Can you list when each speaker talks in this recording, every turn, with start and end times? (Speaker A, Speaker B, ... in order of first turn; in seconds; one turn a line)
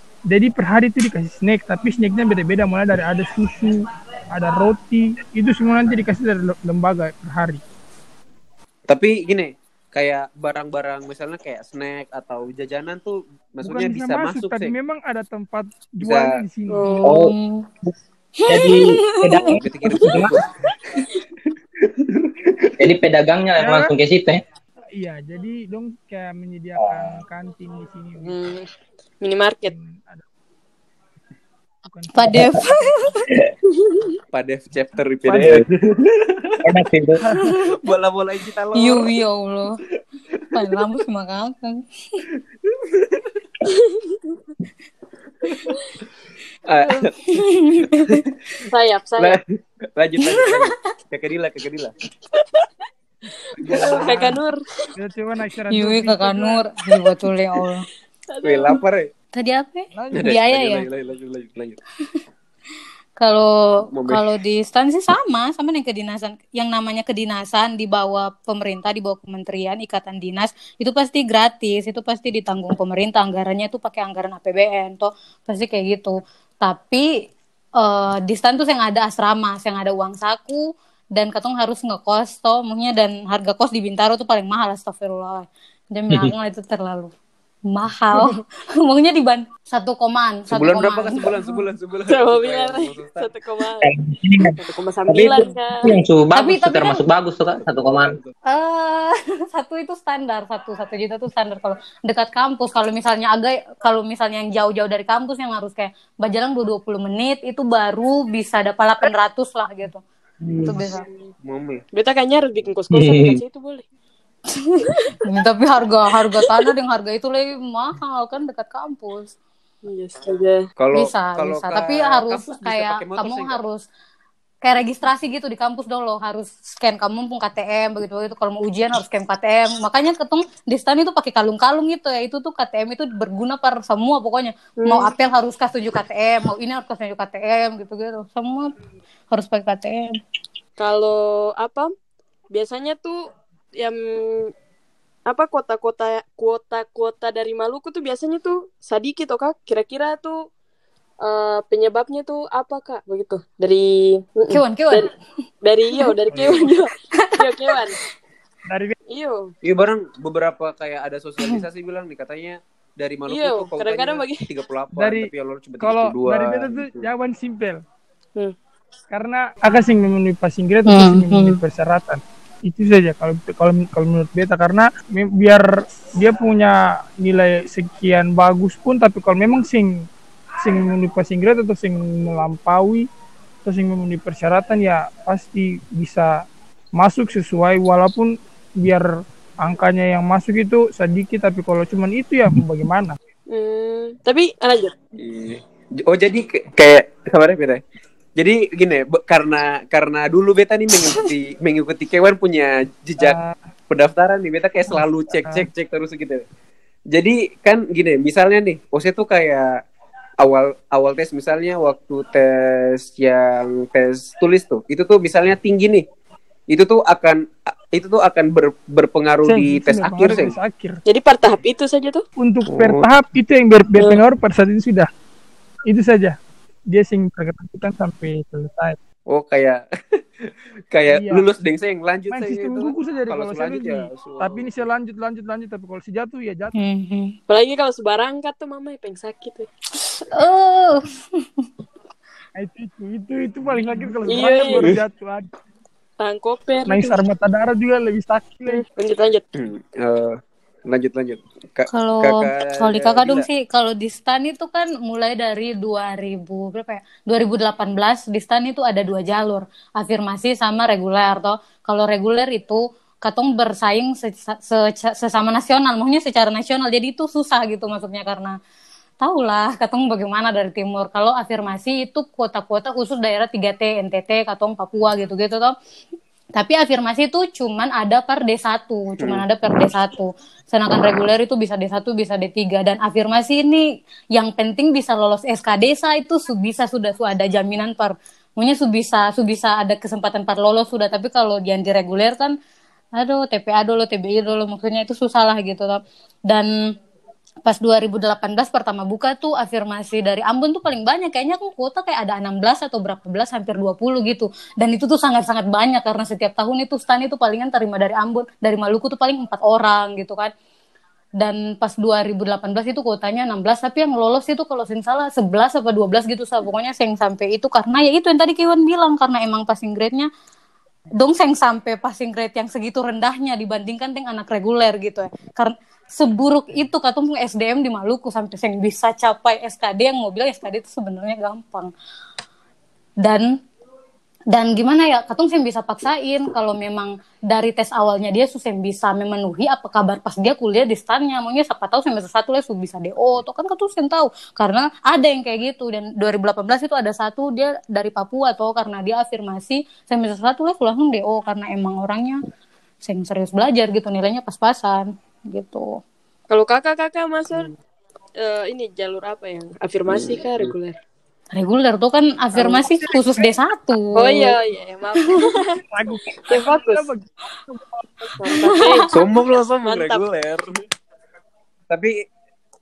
Speaker A: 0.3-7.6
Speaker B: 8.9-14.7
Speaker A: 13.6-16.9
Speaker B: 16.0-16.4
Speaker C: 16.7-17.1
Speaker D: 16.9-17.7
Speaker E: 17.1-17.9
Speaker D: 18.4-19.6
Speaker E: 18.5-20.4
Speaker B: 19.5-21.1
Speaker B: 21.9-22.8
Speaker E: 22.8-24.4
Speaker A: 23.6-23.9
Speaker A: 24.9-28.4
Speaker E: 26.8-27.2
Speaker C: 28.2-29.7
Speaker A: 29.6-30.2
Speaker A: 31.8-32.7
Speaker D: 32.1-33.3
Speaker E: 32.3-32.5
Speaker C: 33.8-34.1
Speaker B: 34.3-36.6
Speaker A: 35.2-35.6
Speaker E: 36.6-37.2
Speaker B: 37.6-39.1
Speaker D: 38.7-39.8
Speaker B: 40.4-40.8
Speaker D: 40.5-41.9
Speaker B: 42.6-43.4
Speaker C: 43.7-44.2
Speaker B: 45.4-45.8
Speaker B: 46.6-48.3
Speaker D: 47.3-48.2
Speaker C: 48.6-49.4
Speaker B: 49.2-51.9
Speaker D: 50.2-50.7
Speaker A: 53.6-54.4
Speaker C: 53.6-54.9
Speaker B: 53.6-54.2
Speaker A: 55.0-56.6
Speaker D: 55.7-57.9
Speaker C: 58.3-58.8
Speaker B: 58.4-59.1
Speaker D: 59.3-60.9
Speaker A: 59.9-60.3
Speaker B: 60.1-61.8
Speaker D: 63.2-77.1
Speaker B: 63.9-64.3
Speaker D: 77.8-87.1
Speaker D: 87.7-91.6
Speaker B: 90.5-93.3
Speaker C: 92.1-93.9
Speaker E: 93.8-94.5
Speaker C: 94.6-95.9
Speaker E: 95.1-98.2
Speaker D: 96.3-97.0
Speaker B: 97.6-98.3
Speaker D: 98.5-110.0
Speaker E: 110.4-110.8
Speaker D: 110.6-111.0
Speaker B: 111.4-111.8
Speaker C: 111.9-113.8
Speaker E: 112.9-113.4
Speaker D: 114.5-119.3
Speaker C: 114.9-115.2
Speaker C: 116.4-116.7
Speaker C: 119.8-120.7
Speaker B: 120.8-123.6
Speaker D: 120.9-123.8
Speaker D: 124.6-138.7
Speaker C: 134.8-135.1
Speaker D: 139.3-140.2
Speaker C: 140.8-141.9
Speaker C: 142.5-143.3
Speaker C: 143.8-144.5
Speaker C: 145.3-150.5
Speaker C: 151.2-155.1
Speaker D: 154.5-155.1
Speaker C: 155.6-157.9
Speaker B: 156.3-156.6
Speaker D: 157.1-157.8
Speaker A: 158.7-158.9
Speaker C: 159.1-159.5
Speaker B: 159.6-167.1
Speaker C: 163.3-164.4
Speaker A: 164.9-167.8
Speaker A: 169.1-180.1
Speaker D: 170.9-171.6
Speaker A: 180.6-183.1
Speaker A: 183.6-189.1
Speaker A: 189.6-193.2
Speaker C: 193.5-194.9
Speaker B: 195.2-197.8
Speaker B: 198.4-203.4
Speaker A: 203.2-203.5
Speaker B: 203.9-206.4
Speaker A: 204.9-205.7
Speaker B: 207.1-209.8
Speaker B: 210.4-216.0
Speaker B: 216.7-220.6
Speaker A: 219.4-221.0
Speaker C: 221.1-222.2
Speaker A: 222.4-225.1
Speaker B: 222.7-223.1
Speaker A: 225.9-226.4
Speaker A: 226.9-229.0
Speaker B: 229.3-234.8
Speaker A: 231.1-231.4
Speaker A: 232.3-236.7
Speaker D: 236.7-237.3
Speaker C: 237.5-239.7
Speaker D: 240.0-241.7
Speaker A: 242.6-245.5
Speaker C: 244.3-244.9
Speaker B: 244.7-245.0
Speaker C: 246.2-247.1
Speaker A: 246.8-248.8
Speaker C: 248.7-249.4
Speaker B: 249.5-253.5
Speaker D: 251.9-268.6
Speaker D: 269.2-275.7
Speaker D: 276.5-292.5
Speaker B: 279.2-279.4
Speaker D: 293.1-296.7
Speaker D: 297.6-310.5
Speaker D: 311.4-320.3
Speaker D: 321.2-331.9
Speaker D: 333.2-333.5
Speaker D: 334.5-352.4
Speaker D: 353.0-356.0
Speaker C: 356.5-357.7
Speaker C: 358.4-361.0
Speaker B: 360.1-360.7
Speaker D: 361.5-364.6
Speaker C: 362.6-362.8
Speaker C: 364.1-365.8
Speaker D: 365.2-365.6
Speaker A: 365.9-368.4
Speaker C: 366.5-367.1
Speaker C: 368.4-369.2
Speaker D: 368.5-369.1
Speaker B: 369.1-370.8
Speaker C: 369.8-370.2
Speaker B: 371.9-372.1